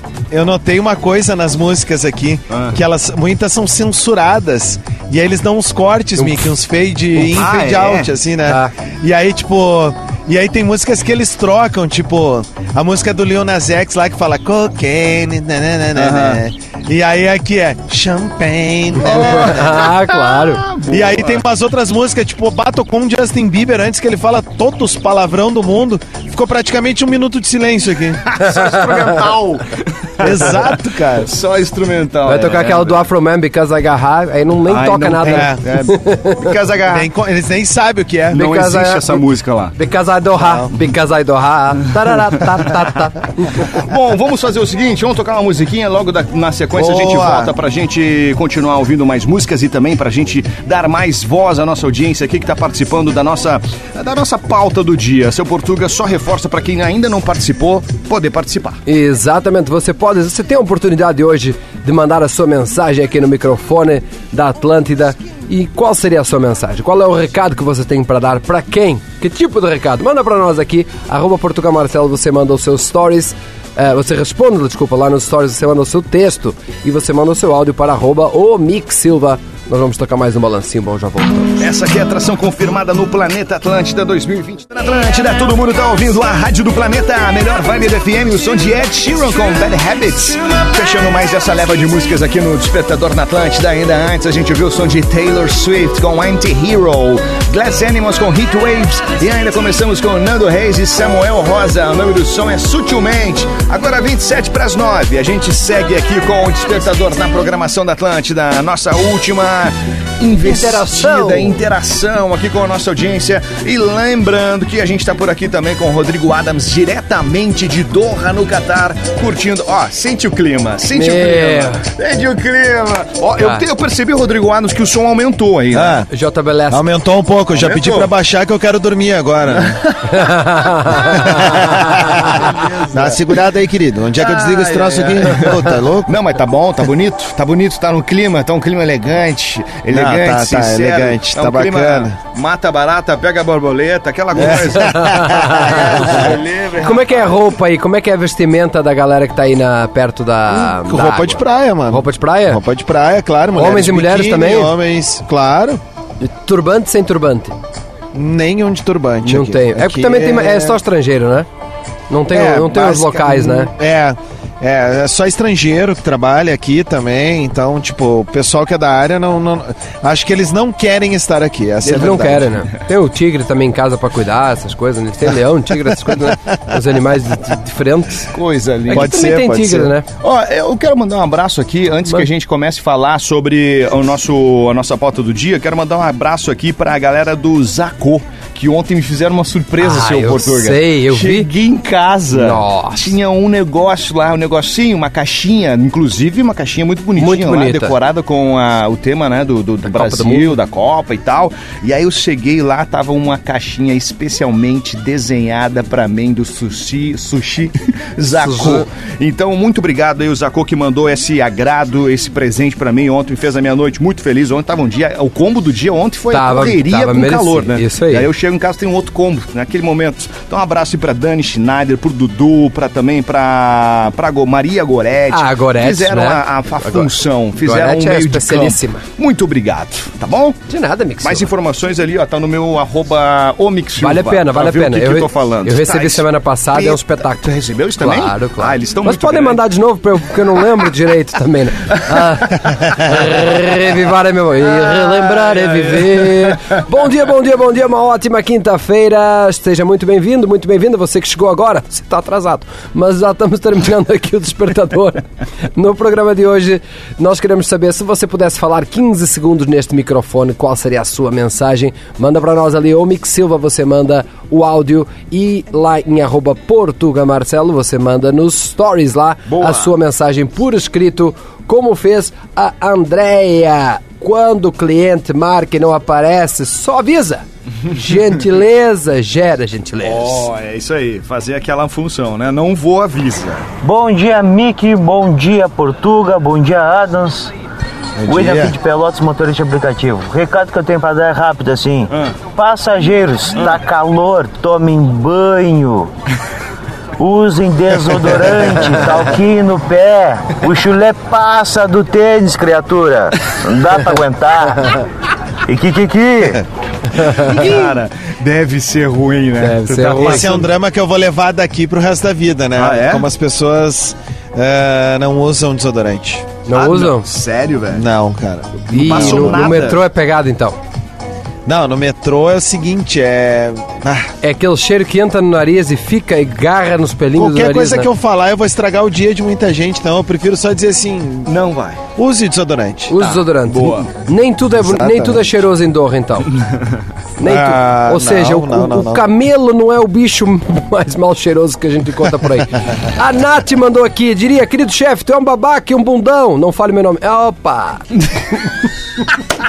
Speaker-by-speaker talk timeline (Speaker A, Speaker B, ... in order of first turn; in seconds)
Speaker A: 0.3-19.6, 20.9-28.3, 30.2-31.3, 35.3-35.6, 36.9-38.5, 40.4-40.7, 46.7-47.5, 125.7-126.1, 126.7-129.8, 131.1-136.1, 139.9-142.2, 144.3-146.1, 150.5-155.8, 158.1-160.8, 162.3-172.5, 178.9-179.9, 288.2-288.7, 310.2-316.5, 317.9-319.6, 321.6-324.3, 327.4-331.5, 332.1-333.1, 334.8-335.6, 337.4-339.3
Speaker B: 2.5-2.8, 7.2-8.1, 15.9-16.4, 19.0-21.4, 28.3-33.0, 34.7-37.1, 38.3-39.7, 43.7-58.8, 81.6-126.0, 127.6-128.1, 129.5-130.0, 132.4-133.2, 134.2-147.4, 178.3-179.1, 180.2-230.6, 231.2-239.6, 244.9-246.5, 269.5-269.9, 280.0-283.6, 307.2-310.6, 312.8-313.3, 316.7-318.0, 318.9-320.0, 331.4-332.0, 333.2-334.1
Speaker C: 6.2-6.4, 19.0-20.7, 32.2-36.5, 38.3-43.7, 58.9-81.6, 110.4-111.6, 120.9-121.8, 126.1-126.8, 130.1-132.4, 144.8-146.3, 146.8-152.6, 153.6-154.7, 156.2-157.5, 159.2-161.5, 162.1-163.7, 171.8-178.3, 178.9-180.1, 189.8-191.5, 192.3-193.1, 197.2-197.9, 199.8-200.6, 208.4-208.8, 216.3-218.3, 225.3-229.0, 230.7-231.5, 234.0-237.4, 238.0-280.4, 309.6-310.5, 316.6-317.2, 318.9-320.8, 324.4-328.1, 333.1-336.5, 337.4-348.0
Speaker D: 283.8-287.5, 288.3-296.1, 297.2-304.9, 305.6-306.6